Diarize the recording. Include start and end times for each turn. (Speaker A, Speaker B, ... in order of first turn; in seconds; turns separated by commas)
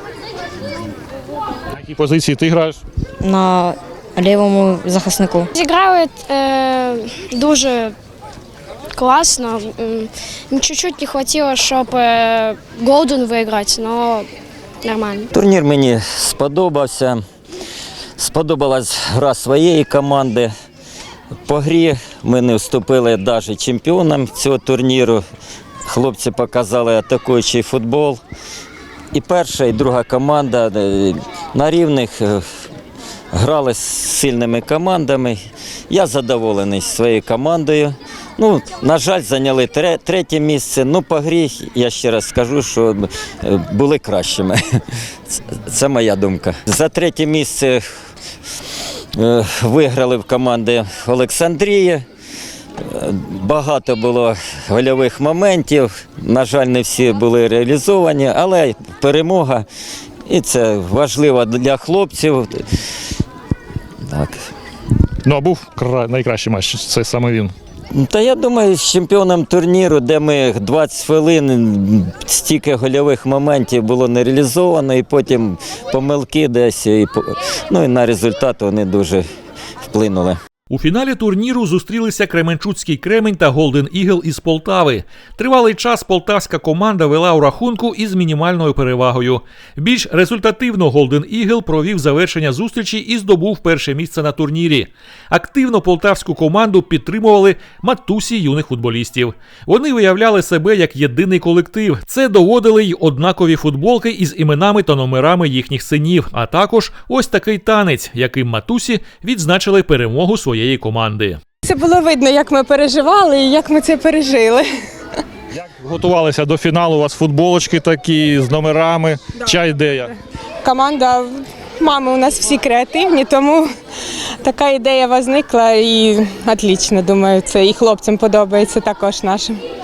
Speaker A: 1.7-2.8, Speaker B: 3.2-5.5, Speaker C: 5.5-7.9, Speaker C: 9.0-14.2, Speaker C: 14.8-15.2, Speaker D: 15.3-17.2, Speaker D: 18.2-20.5, Speaker D: 21.5-25.2, Speaker D: 25.8-28.2, Speaker D: 29.1-32.5, Speaker D: 33.3-35.4, Speaker D: 35.9-44.6, Speaker D: 45.3-47.9, Speaker D: 49.2-52.0, Speaker D: 52.8-59.6, Speaker D: 60.3-62.6, Speaker D: 64.0-64.4, Speaker A: 65.2-67.5, Speaker D: 67.9-79.2, Speaker D: 79.8-80.4, Speaker E: 80.7-111.4, Speaker F: 111.6-114.7, Speaker A: 115.5-120.1, Speaker F: 120.6-123.7, Speaker F: 124.4-129.6